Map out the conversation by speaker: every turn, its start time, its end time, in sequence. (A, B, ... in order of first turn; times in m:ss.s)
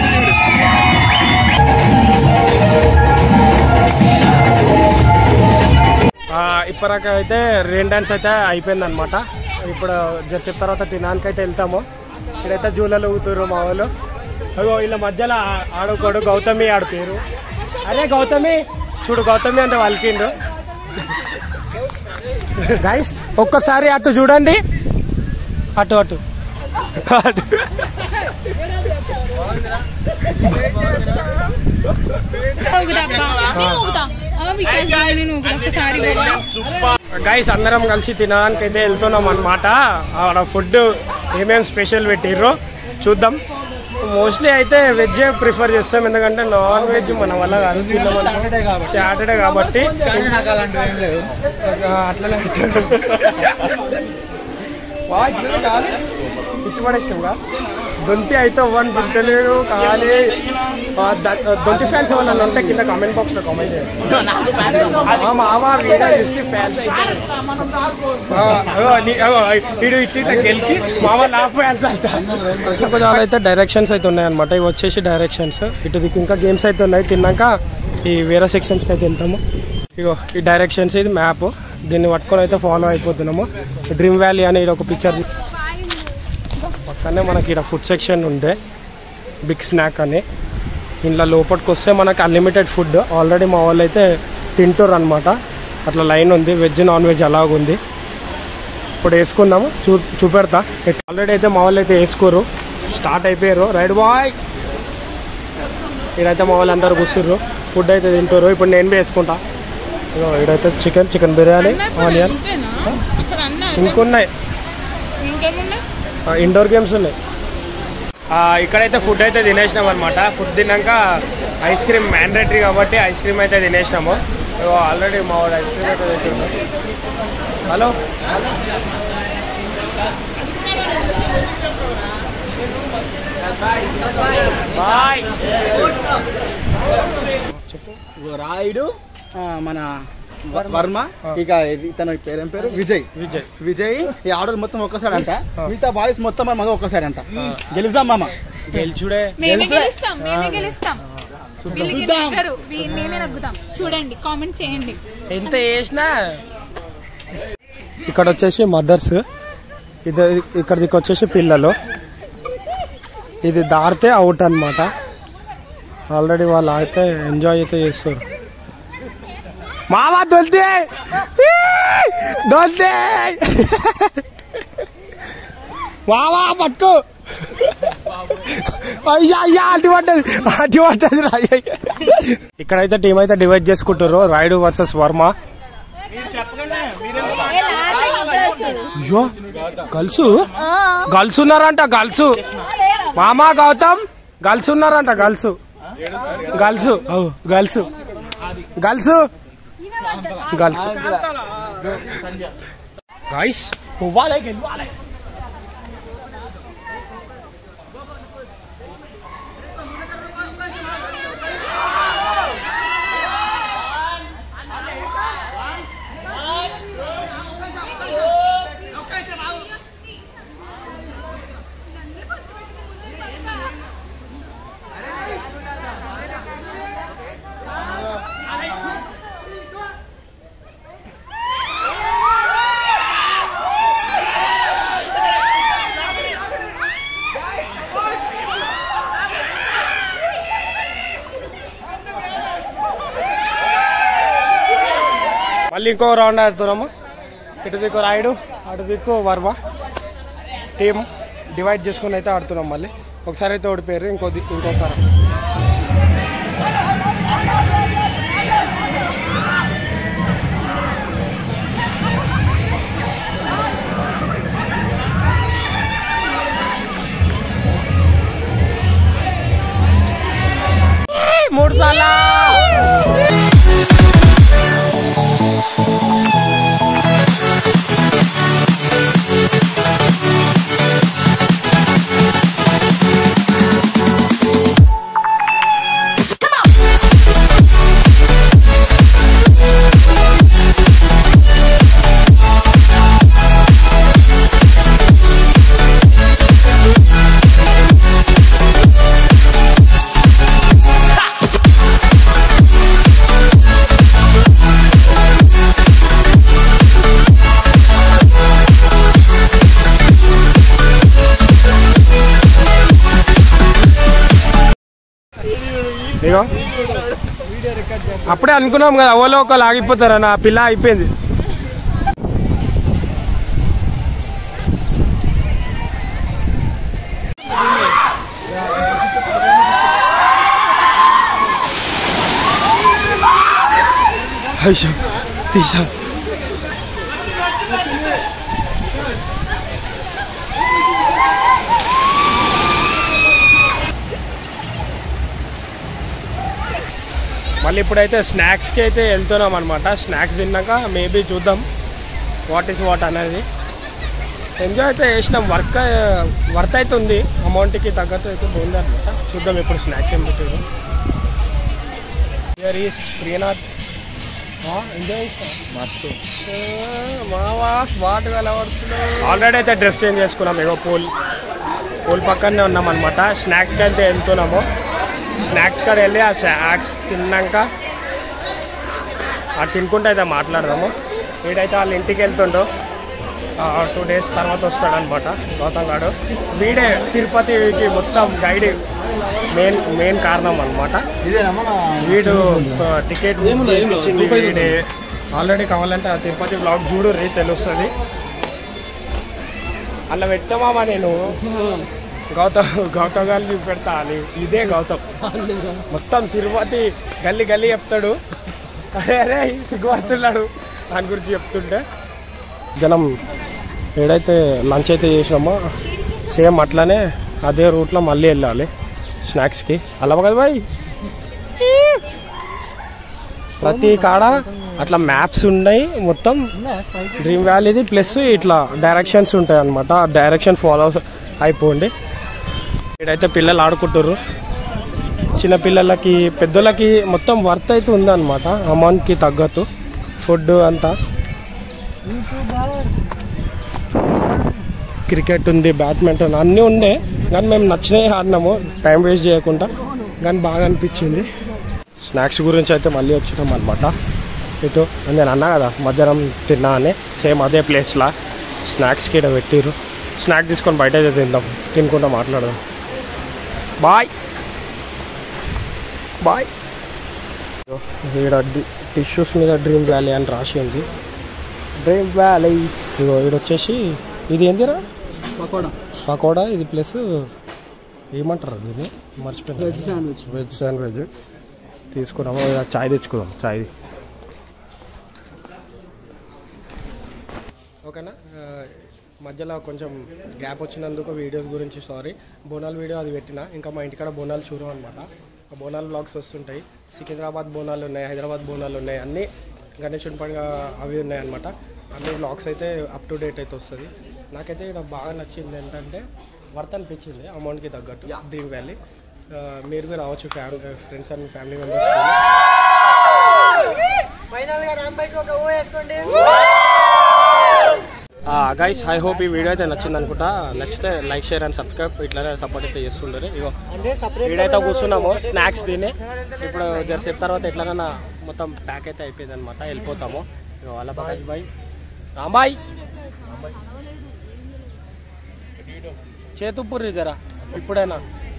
0:06.3-0:11.9 A
0:12.4-0:13.9 A
0:14.6-0:17.2 A
0:17.8-0:20.3 A
0:22.6-0:24.6 A
0:25.8-0:26.2 A
0:27.0-0:27.9 A
0:32.6-0:36.5 B
0:33.5-0:33.8 A
0:37.2-0:43.4 A
0:44.0-0:50.2 A
0:50.0-0:51.3 C
0:51.6-0:53.6 A
0:55.1-0:56.0 A
0:56.6-0:57.4 A
0:58.0-1:00.4 A
1:01.0-1:03.9 A
1:04.6-1:07.3 A
1:08.3-1:19.4 A
1:20.0-1:25.3 A
1:26.7-1:28.6 A
1:29.4-1:30.2 A
1:31.0-1:37.8 A
1:39.0-1:44.4 A
1:46.2-1:49.4 A
1:50.1-1:52.4 A
1:51.6-1:54.1 B
1:53.8-1:54.3 A
1:55.2-1:55.8 B
1:56.3-1:57.2 A
1:58.3-2:06.5 A
2:07.7-2:07.9 A
2:14.7-2:15.5 A
2:17.4-2:18.0 A
2:18.2-2:19.9 D
2:20.5-2:28.3 D
2:23.2-2:23.5 A
2:28.7-2:30.7 A
2:29.4-2:31.0 B
2:29.5-2:29.9 D
2:31.7-2:35.0 B
2:31.7-2:32.4 D
2:35.3-2:36.4 A
2:38.1-2:39.2 A
2:40.1-2:41.8 A
2:43.4-2:44.9 A
2:46.1-2:48.2 A
2:49.9-2:54.2 A
2:56.1-3:05.3 A
3:07.1-3:08.9 B
3:09.0-3:09.3 A
3:09.9-3:10.5 A
3:11.0-3:12.4 A
3:13.1-3:15.6 A
3:16.4-3:17.9 A
3:18.8-3:19.3 A
3:20.5-3:21.2 A
3:23.3-3:24.9 A
4:05.7-4:06.9 A
4:07.6-4:09.6 A
4:10.8-4:15.0 A
4:31.1-4:32.7 A
5:16.2-5:16.6 A
5:17.8-5:18.2 C
5:18.2-5:21.1 A
5:34.6-5:35.9 A
5:47.6-5:51.6 A
5:52.5-5:53.5 A
5:54.6-6:00.6 A
6:02.6-6:03.6 A
6:04.6-6:05.6 A
6:05.7-6:06.2 D
6:06.5-6:11.1 A
6:12.1-6:14.7 A
6:15.4-6:17.7 A
6:19.6-6:22.7 A
6:23.6-6:28.8 A
6:29.5-6:31.0 A
6:31.2-6:32.2 D
6:32.0-6:34.8 A
6:35.4-6:37.9 A
6:40.1-6:41.4 A
6:42.3-6:45.2 A
6:45.9-6:48.2 A
6:48.9-6:51.8 A
6:52.8-6:53.2 A
6:54.0-6:55.7 A
6:56.3-6:58.7 A
6:59.2-7:00.7 A
7:03.6-7:06.5 A
7:03.6-7:05.0 C
7:06.6-7:07.6 C
7:07.2-7:11.9 A
7:13.0-7:14.2 A
7:15.4-7:19.7 A
7:20.2-7:21.0 A
7:22.0-7:23.0 C
7:25.1-7:31.3 A
7:32.0-7:34.0 A
7:34.6-7:42.6 A
7:43.8-7:44.1 A
7:46.2-7:46.5 A
7:47.7-7:50.9 A
7:51.8-7:54.8 A
7:55.4-7:55.7 C
7:56.1-7:57.3 A
7:58.1-8:01.1 A
7:59.6-8:00.4 C
8:01.9-8:03.7 A
8:07.8-8:28.8 A
8:29.3-8:32.2 A
8:34.3-8:36.5 C
8:38.3-8:43.6 A
8:43.7-8:45.6 C
8:44.2-8:51.5 A
8:46.1-8:47.1 C
8:52.2-8:52.6 A
8:56.4-8:58.0 A